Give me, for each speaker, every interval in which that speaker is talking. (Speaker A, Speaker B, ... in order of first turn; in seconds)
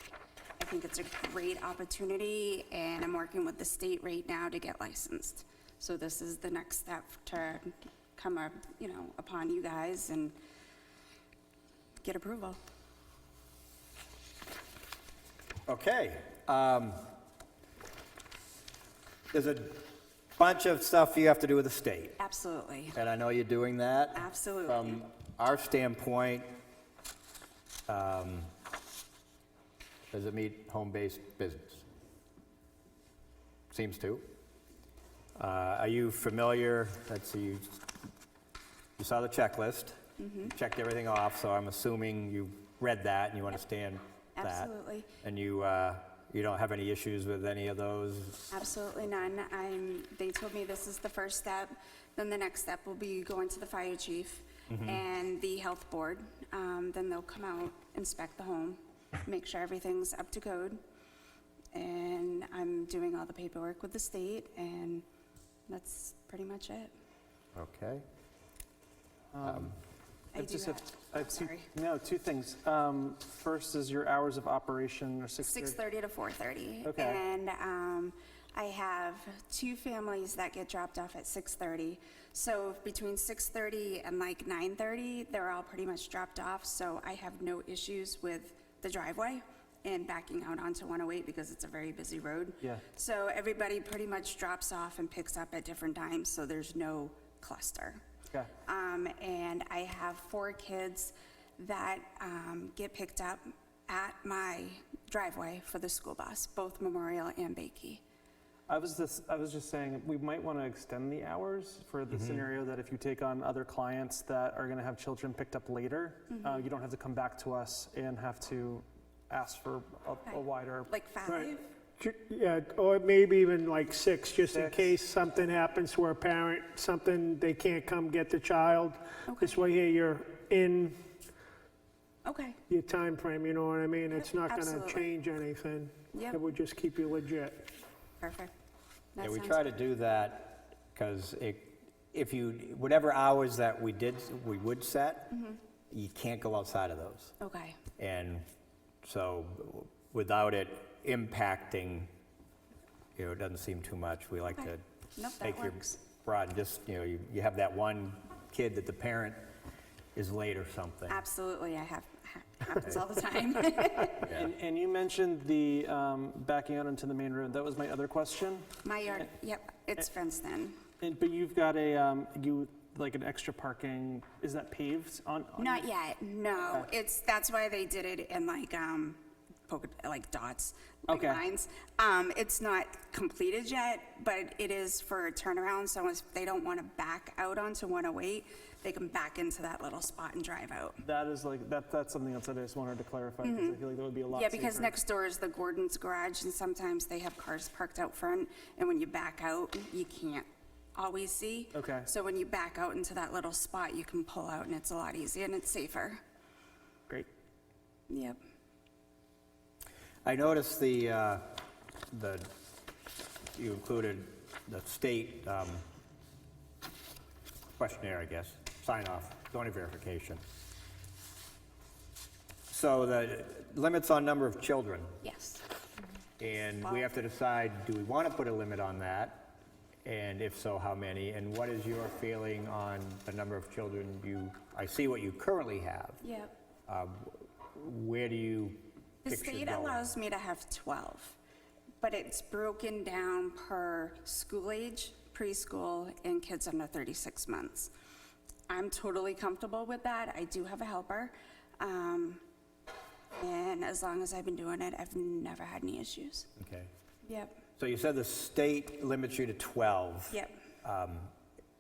Speaker A: 0.6-10.3, 12.0-12.6, 22.2-23.0, 24.1-25.0, 40.2-40.5, 44.4-45.1, 48.5-60.8, 61.7-65.0, 65.7-66.9, 70.3-71.7, 75.4-98.0, 98.6-108.0, 116.3-116.7, 120.3-121.6, 129.3-129.6, 132.2-132.6, 134.1-135.1, 136.1-136.4, 138.2-138.5, 139.2-139.6, 145.3-145.6, 147.4-147.8, 154.5-156.0, 161.1-164.4, 168.8-170.8, 175.6-191.0, 193.4-193.8, 194.3-206.2, 208.1-208.4, 225.2-225.6, 236.2-236.5, 239.2-241.4, 242.0-247.9, 248.7-252.4, 253.4-256.5, 257.2-257.6, 260.3-260.6
Speaker B: 15.7-17.1, 19.3-22.2, 22.9-26.5, 27.9-28.5, 30.1-31.9, 33.7-34.2, 35.4-37.9, 39.0-44.7, 45.2-48.5, 54.7-55.0, 67.5-68.0, 69.4-69.8, 139.2-145.3, 145.9-147.3, 148.0-148.5, 149.0-152.1, 153.2-154.8, 155.4-159.4, 160.2-161.2, 210.2-211.6, 212.1-212.5, 213.6-215.8, 217.8-220.4, 222.7-225.2, 226.4-236.2, 236.9-240.1, 256.6-256.9, 257.8-261.3
Speaker C: 69.3-69.8, 70.3-75.8, 76.8-77.2, 108.7-120.9, 124.5-124.9, 164.2-168.7, 171.0-175.9, 181.1-181.4, 191.0-194.9, 201.7-202.1
Speaker D: 121.3-131.0, 132.7-137.7